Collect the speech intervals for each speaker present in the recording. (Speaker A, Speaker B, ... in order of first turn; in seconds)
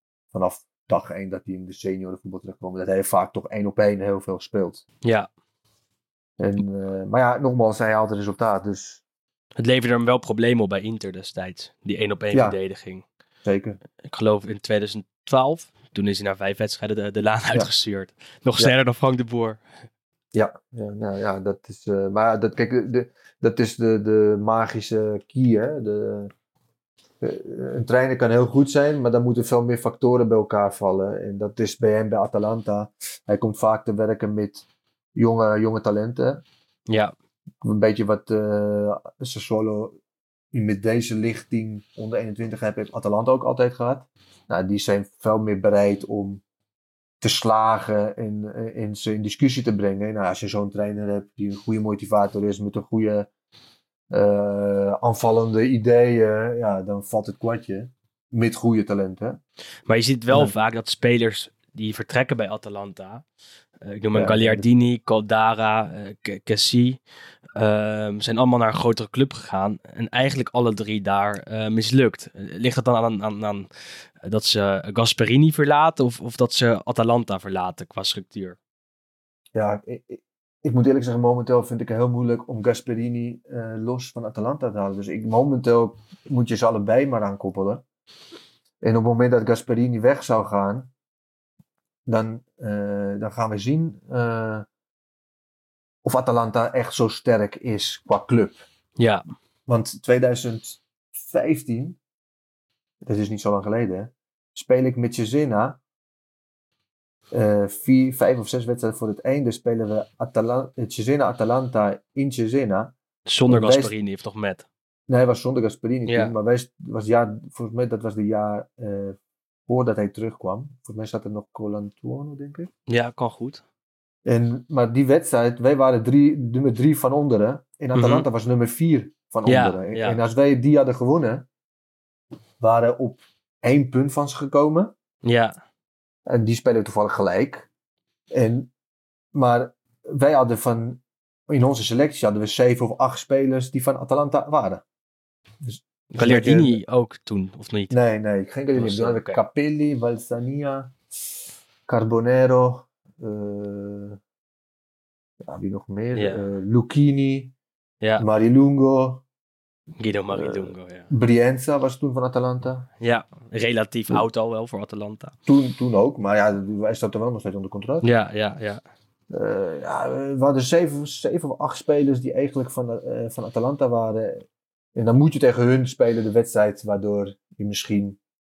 Speaker A: 0.3-4.8, 6.4-9.0, 12.3-12.6, 13.4-13.8, 20.3-26.3, 27.2-36.4, 37.6-40.0, 40.5-46.4, 47.2-53.3, 54.1-59.4, 64.1-64.7, 79.5-87.8, 88.8-90.9, 92.0-94.7, 96.0-98.6, 99.7-102.0, 103.0-105.8, 107.3-112.9, 113.5-113.9, 115.1-122.7, 124.2-131.5, 132.6-134.9, 136.2-137.7, 138.3-138.7, 139.3-144.8, 145.6-146.8, 147.9-150.9, 151.9-154.2, 155.4-157.5, 158.2-159.2, 160.3-162.9, 165.5-168.1, 169.3-178.2
Speaker B: 9.6-13.0, 14.0-19.6, 36.9-37.1, 59.9-63.2, 63.8-67.0, 67.5-73.7, 74.2-78.6, 99.0-99.2, 113.2-114.6, 116.1-116.3, 122.9-123.6, 127.9-128.3, 129.4-130.2, 135.2-135.6, 146.1-147.9, 148.8-149.4, 156.1-156.4, 158.0-158.2, 160.0-161.1, 163.0-165.3, 168.0-168.8